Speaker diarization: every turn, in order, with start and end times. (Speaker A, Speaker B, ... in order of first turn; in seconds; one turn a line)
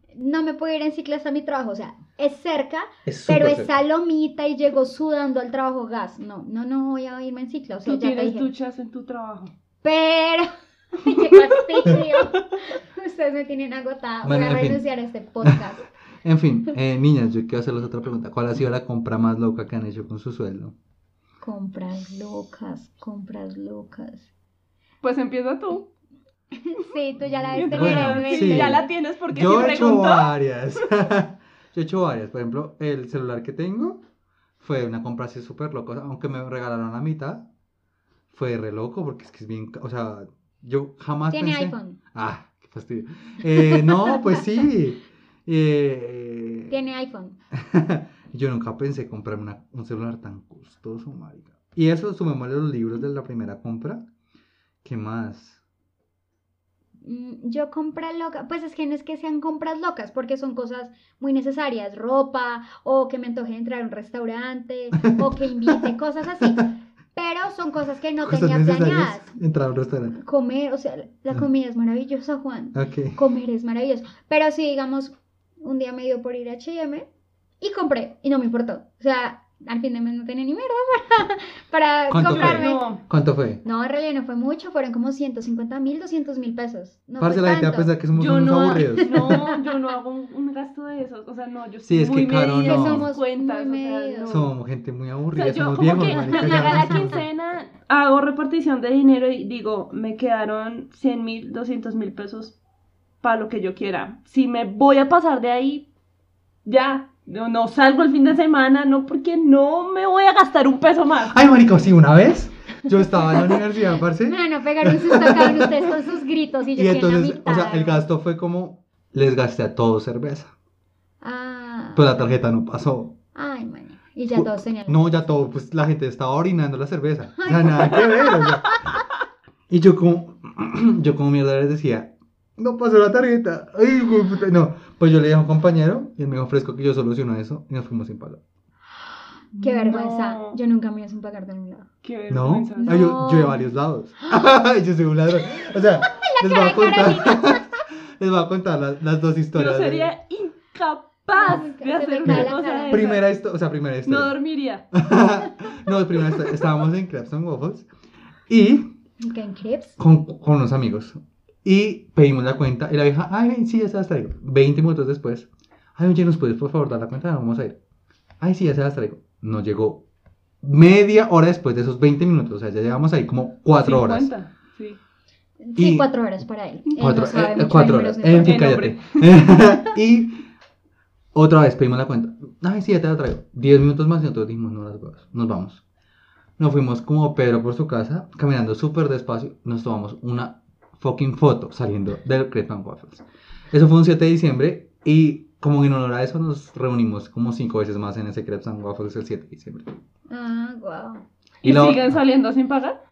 Speaker A: 0.1-8.5
Speaker B: 3.1-3.7
Speaker C: 7.9-9.5
Speaker A: 9.8-15.9
Speaker C: 11.5-12.0
Speaker B: 14.2-14.8
Speaker B: 16.2-20.8
Speaker A: 21.4-24.3
Speaker C: 25.0-25.9
Speaker A: 26.6-28.9
Speaker C: 27.5-30.3
Speaker B: 27.6-34.0
Speaker B: 34.6-37.5
Speaker B: 38.3-46.7
Speaker A: 41.3-42.0
Speaker A: 46.7-47.4
Speaker B: 47.5-54.0
Speaker B: 54.8-55.6
Speaker A: 57.0-69.3
Speaker B: 65.0-65.8
Speaker B: 68.2-70.2
Speaker A: 70.1-77.1
Speaker B: 72.7-73.2
Speaker A: 77.6-82.9
Speaker B: 82.1-83.6
Speaker C: 82.2-83.0
Speaker A: 83.6-87.9
Speaker B: 87.2-89.4
Speaker C: 88.2-94.5
Speaker A: 88.8-89.6
Speaker B: 91.8-93.1
Speaker A: 92.7-94.5
Speaker B: 94.3-97.2
Speaker C: 95.3-102.6
Speaker C: 103.2-105.9
Speaker C: 106.7-111.3
Speaker B: 111.3-116.0
Speaker A: 114.2-118.0
Speaker B: 116.8-120.5
Speaker A: 121.2-122.1
Speaker B: 122.0-123.2
Speaker A: 123.3-125.0
Speaker B: 124.4-128.8
Speaker A: 127.4-128.6
Speaker B: 129.7-138.4
Speaker C: 139.6-140.6
Speaker A: 139.6-141.9
Speaker C: 142.0-143.1
Speaker B: 142.3-150.1
Speaker A: 142.8-143.7
Speaker A: 146.1-147.7
Speaker C: 149.5-153.3
Speaker A: 151.3-153.1
Speaker B: 152.2-154.3
Speaker C: 154.1-154.8
Speaker B: 154.9-157.9
Speaker B: 158.5-158.9
Speaker A: 159.2-160.0
Speaker B: 160.0-167.8
Speaker B: 168.4-170.0
Speaker B: 170.6-174.3
Speaker C: 173.8-175.0
Speaker A: 175.6-178.6
Speaker B: 175.8-176.1
Speaker B: 177.0-180.4
Speaker C: 178.4-179.4
Speaker B: 181.3-185.8
Speaker B: 186.6-199.9
Speaker A: 200.3-201.2
Speaker C: 201.6-202.9
Speaker B: 201.6-202.2